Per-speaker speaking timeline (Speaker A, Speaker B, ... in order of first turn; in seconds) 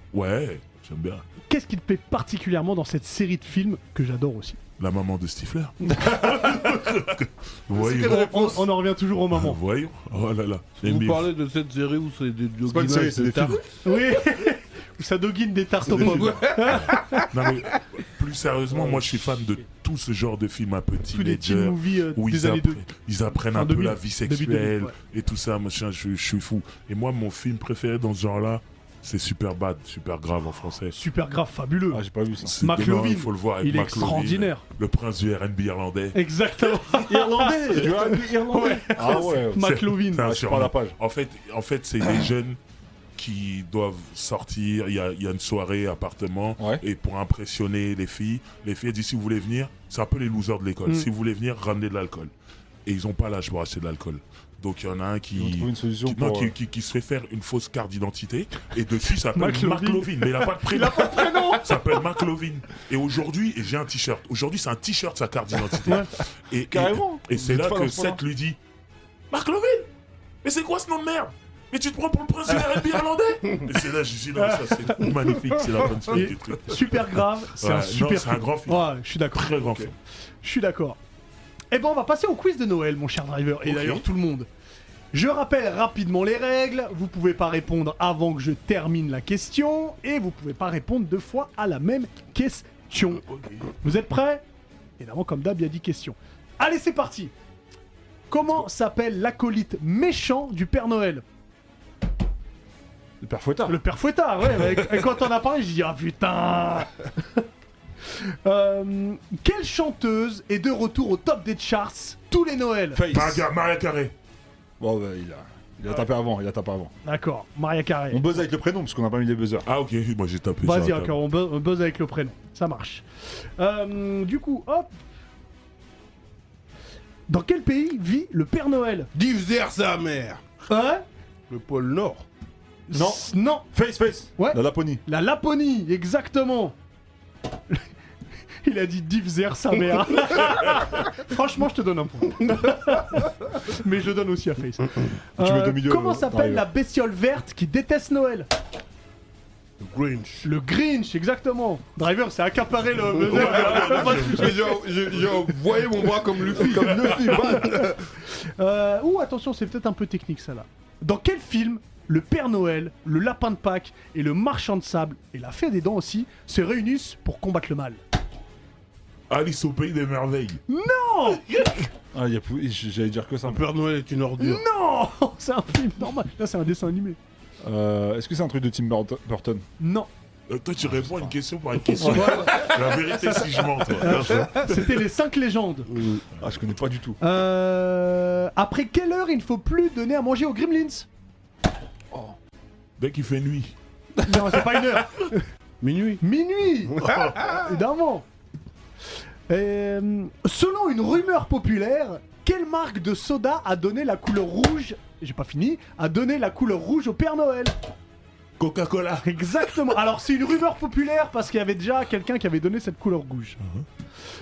Speaker A: 0.1-1.2, 4.8-8.6, 9.3-11.3, 16.7-31.0, 32.5-36.2, 39.6-42.6, 43.2-52.3, 52.9-68.6, 69.3-69.9, 70.4-77.1, 77.6-79.9, 83.7-84.0, 93.2-93.6, 113.1-114.1, 119.7-121.2, 153.3-154.6, 169.3-170.6, 171.3-171.9, 180.5-184.7, 193.0-193.8, 208.6-209.3
Speaker B: 1.5-4.6, 8.0-9.6, 13.8-17.3, 21.1-22.8, 23.5-24.9, 30.9-32.0, 32.6-34.6, 36.1-40.3, 59.4-62.0, 74.4-75.2, 76.1-79.5, 80.4-81.0, 81.7-84.5, 85.1-93.2, 93.8-94.5, 95.0-97.3, 98.3-101.2, 103.7-107.4, 108.1-113.0, 117.0-118.3, 120.6-123.0, 123.6-124.9, 127.3-129.1, 130.7-131.0, 132.9-133.7, 134.4-136.8, 138.6-148.5, 150.4-154.7, 157.5-157.9, 158.6-168.0, 170.7-171.4, 174.4-177.2, 179.8-180.1, 182.1-185.9, 187.2-191.1, 194.2-195.5, 196.2-198.2, 199.5-207.7, 209.2-213.6
Speaker C: 7.7-8.6, 10.8-13.7, 15.9-17.3, 18.7-19.1, 129.1-130.4, 131.5-132.3, 149.8-150.5, 153.2-157.8, 173.4-174.6, 185.9-186.2, 195.8-196.2, 197.0-197.6
Speaker D: 12.7-13.6, 15.9-16.4, 31.9-32.6, 37.1-41.0, 55.4-56.5, 66.7-68.2, 103.2-103.8, 112.9-113.5, 114.8-116.9, 118.1-119.7, 132.9-135.0, 145.4-146.7, 156.5-158.0, 172.1-173.6, 177.6-179.6, 180.9-181.3, 182.0-182.5, 186.4-187.2